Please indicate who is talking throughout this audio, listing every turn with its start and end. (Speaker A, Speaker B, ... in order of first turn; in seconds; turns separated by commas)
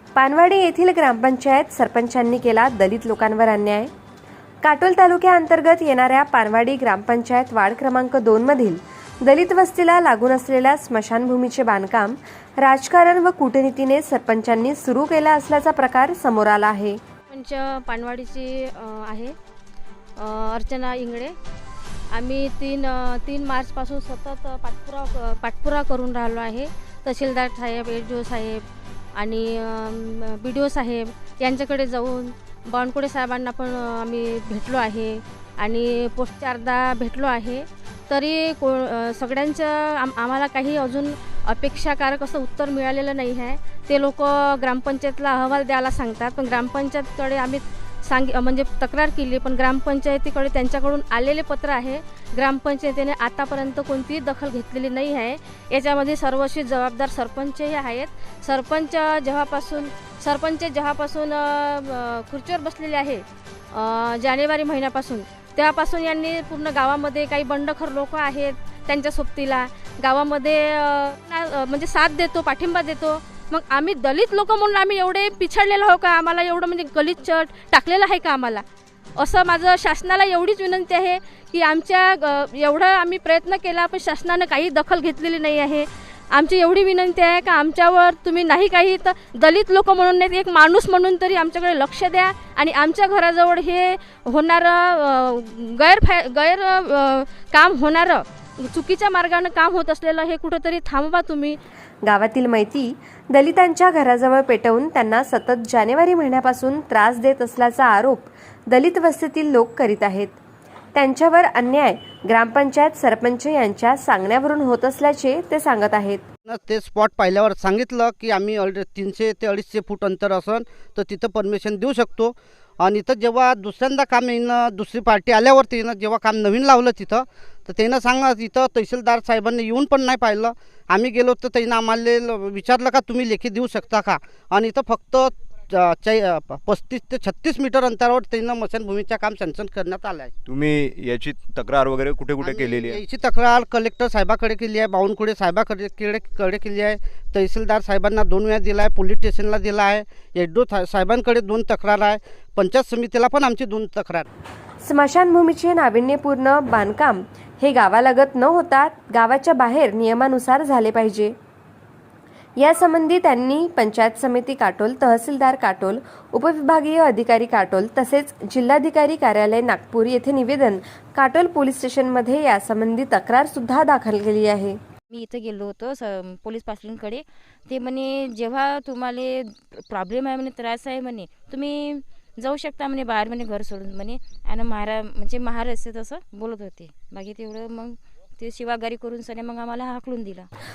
Speaker A: 0.1-3.9, Speaker A: 4.6-17.0, Speaker B: 17.3-19.3, Speaker B: 20.2-21.3, Speaker B: 22.1-28.6, Speaker B: 29.1-78.6, Speaker B: 79.2-101.5, Speaker A: 102.0-110.4, Speaker A: 110.9-116.2, Speaker C: 116.5-140.3, Speaker D: 140.4-143.0, Speaker C: 142.4-154.3, Speaker A: 154.8-161.3, Speaker A: 162.6-174.8, Speaker E: 175.1-190.5